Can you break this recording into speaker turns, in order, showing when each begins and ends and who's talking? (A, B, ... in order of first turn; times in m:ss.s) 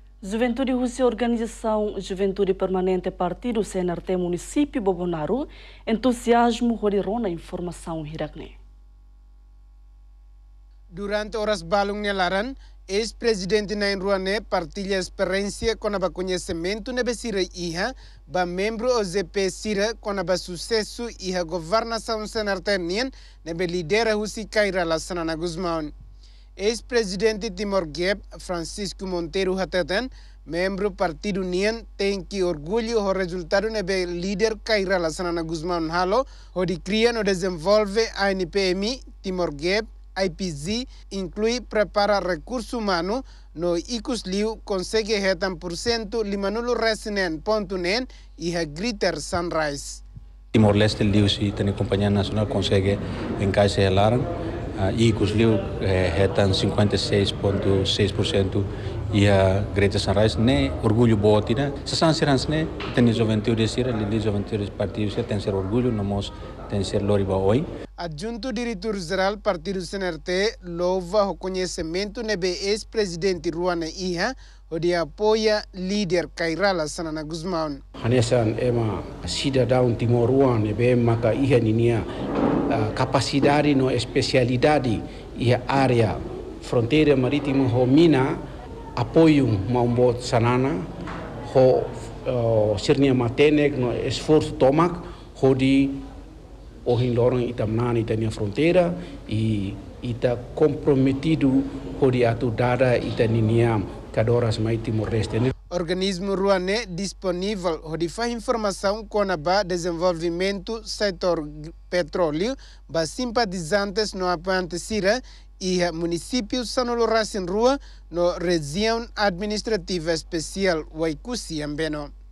0:00.2-0:08.5 A
0:10.9-0:25.9 B
0:26.6-0:50.0 B
0:50.5-0:54.2 C
0:54.8-1:07.6 C
1:08.0-1:17.8 B
1:18.0-1:22.1 D
1:22.7-1:28.4 D
1:29.0-1:30.9 D
1:31.4-1:36.0 D
1:36.8-1:45.5 D
1:45.7-2:02.1 B